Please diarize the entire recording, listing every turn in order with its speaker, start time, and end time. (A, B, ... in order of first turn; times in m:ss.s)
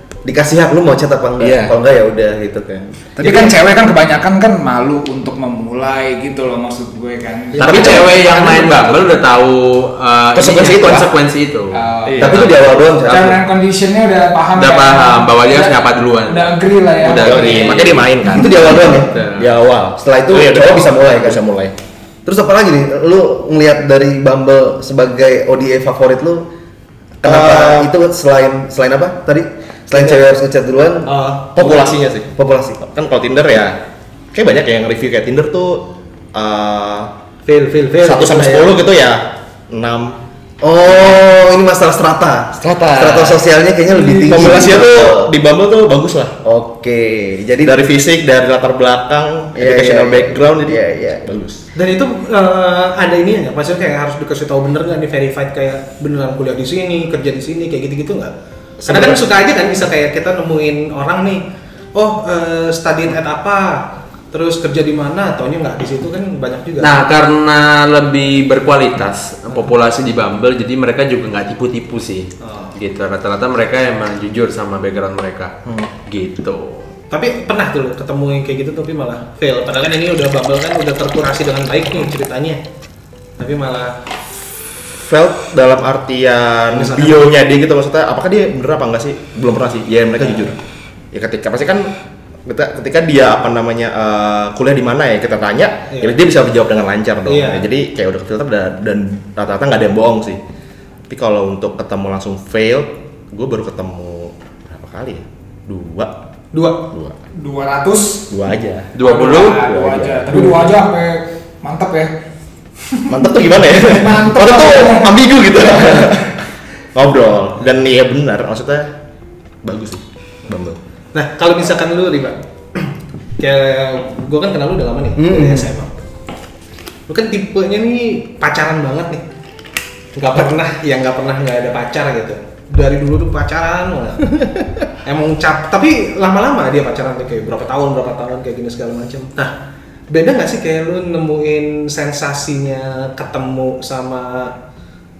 0:00.2-0:03.0 A
0:01.4-0:01.7 B
0:03.2-0:08.8 C
0:03.2-0:03.5 D
0:07.6-0:08.1 E
0:07.6-0:12.6 B
0:10.3-0:11.1 E
0:11.7-0:12.3 C
0:12.0-0:13.1 E
0:12.2-0:13.4 A
0:13.1-0:15.8 C
0:14.6-0:19.5 B
0:16.3-0:17.9 C
0:17.2-0:21.7 E
0:18.2-0:19.1 A
0:20.0-0:21.4 A
0:22.2-0:26.4 A
0:27.2-0:32.8 A
0:27.2-0:27.9 E
0:29.9-0:30.2 D
0:31.1-0:31.5 D
0:31.5-0:32.3 E
0:32.8-0:33.8 E
0:34.3-0:37.1 E
0:37.4-0:38.8 D
0:38.0-0:40.2 E
0:40.6-0:45.3 A
0:42.6-0:43.4 E
0:44.0-0:44.4 C
0:44.1-0:46.3 E
0:46.4-0:47.8 A
0:47.6-0:51.6 E
0:49.5-0:51.3 A
0:51.7-0:58.3 D
0:58.8-0:59.2 E
0:58.8-1:06.9 D
1:06.8-1:15.5 B
1:12.4-1:12.7 D
1:16.0-1:16.9 B
1:17.1-1:22.6 D
1:23.4-1:24.0 D
1:25.0-1:30.6 E
1:26.7-1:27.3 D
1:30.2-1:30.5 D
1:31.1-1:31.9 E
1:32.4-1:40.4 E
1:35.9-1:36.2 D
1:37.2-1:37.6 D
1:41.1-1:46.1 E
1:46.5-1:46.8 D
1:46.9-1:47.2 E
1:47.3-1:48.3 C
1:48.3-1:50.7 E
1:48.9-1:49.6 B
1:49.0-1:52.1 C
1:52.8-1:56.2 C
1:53.1-1:56.3 E
1:56.9-1:58.9 E
1:59.6-2:00.8 E
2:01.1-2:05.9 D
2:05.2-2:05.7 A
2:07.1-2:09.2 D
2:10.1-2:19.5 D
2:20.1-2:24.6 D